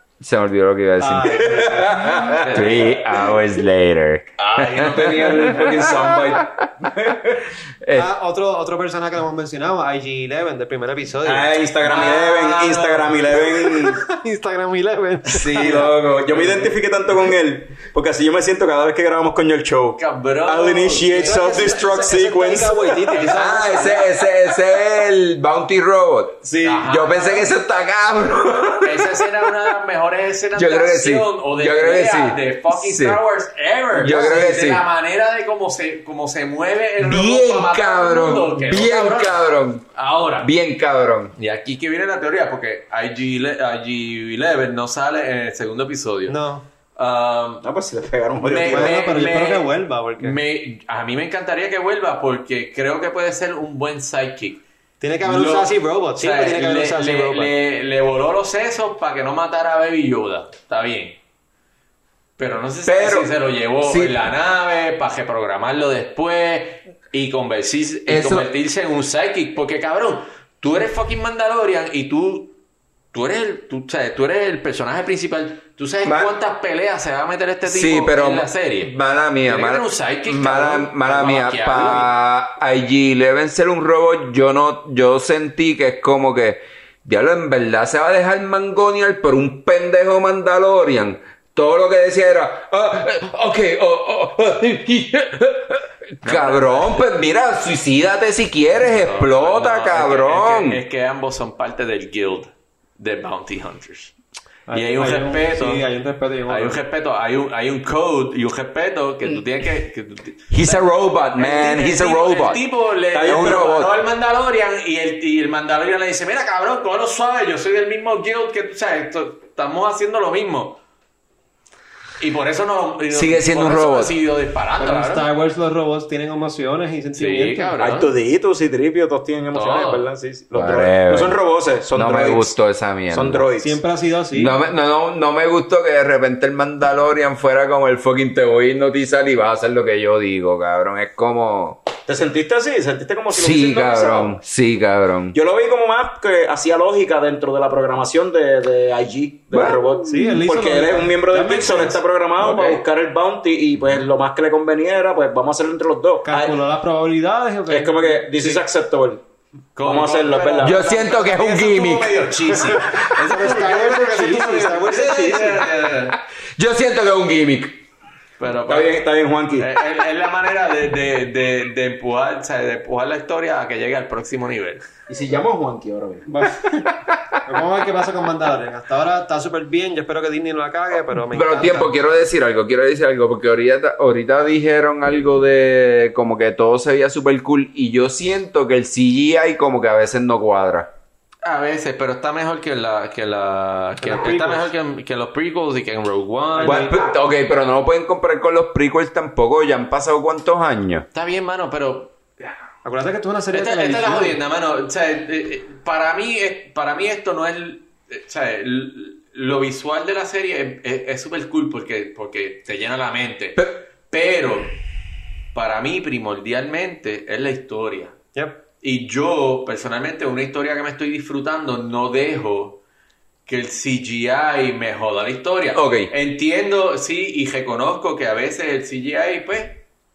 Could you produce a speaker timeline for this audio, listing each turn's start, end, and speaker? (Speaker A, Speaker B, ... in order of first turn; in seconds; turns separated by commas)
Speaker A: 0.2-7.1, Speaker B: 1.0-2.1, Speaker C: 1.8-2.1, Speaker D: 2.4-3.0, Speaker C: 4.5-7.2, Speaker A: 7.8-8.1, Speaker B: 8.0-11.5, Speaker C: 11.2-14.0, Speaker D: 11.8-13.1, Speaker B: 13.8-15.9, Speaker A: 15.3-16.5, Speaker C: 15.8-23.2, Speaker D: 20.0-21.7, Speaker B: 21.2-24.1, Speaker D: 23.1-23.9, Speaker A: 23.3-29.1, Speaker D: 26.6-27.5, Speaker D: 28.8-39.4, Speaker A: 30.6-33.2, Speaker A: 33.9-34.9, Speaker A: 37.0-39.9, Speaker D: 39.9-40.5, Speaker A: 40.4-41.3, Speaker D: 41.4-46.4, Speaker B: 46.3-46.6, Speaker D: 47.0-47.6, Speaker C: 47.6-49.0, Speaker D: 48.4-54.6, Speaker B: 48.7-50.4, Speaker B: 55.0-57.5, Speaker D: 55.2-61.2, Speaker D: 62.4-72.6, Speaker A: 62.9-64.2, Speaker A: 68.1-68.5, Speaker D: 73.1-82.1, Speaker A: 76.0-76.3, Speaker A: 77.7-100.8, Speaker D: 96.2-97.1, Speaker D: 98.8-104.2, Speaker B: 104.7-106.8, Speaker D: 104.7-105.9, Speaker D: 106.5-120.8, Speaker A: 110.5-112.6, Speaker C: 113.1-113.7, Speaker A: 113.2-113.9, Speaker D: 122.2-125.3, Speaker A: 123.1-124.1, Speaker B: 124.8-127.7, Speaker D: 127.2-128.1, Speaker C: 127.8-132.6, Speaker D: 129.5-130.1, Speaker A: 130.5-131.4, Speaker A: 131.9-133.4, Speaker C: 133.1-133.8, Speaker B: 133.6-134.6, Speaker A: 134.3-141.9, Speaker C: 142.1-144.4, Speaker A: 143.3-145.4, Speaker C: 145.3-156.6, Speaker A: 149.5-150.0, Speaker B: 150.1-152.0, Speaker A: 152.4-152.8, Speaker B: 156.2-158.6, Speaker C: 157.7-159.2, Speaker D: 159.8-166.2, Speaker C: 159.8-160.8, Speaker A: 160.6-162.3, Speaker B: 162.5-165.6, Speaker A: 166.6-167.8, Speaker D: 168.4-169.0, Speaker C: 168.7-169.7, Speaker D: 169.6-174.9, Speaker C: 175.1-176.2, Speaker B: 176.3-176.9, Speaker B: 177.4-181.9, Speaker A: 181.3-190.9, Speaker D: 191.4-197.0, Speaker B: 194.0-194.7, Speaker B: 196.6-196.9, Speaker A: 196.6-201.1, Speaker D: 201.1-202.2, Speaker B: 202.8-204.4, Speaker D: 203.5-214.8, Speaker D: 215.5-218.2, Speaker B: 218.3-218.6, Speaker D: 218.8-222.8, Speaker D: 223.5-229.8, Speaker A: 225.7-226.1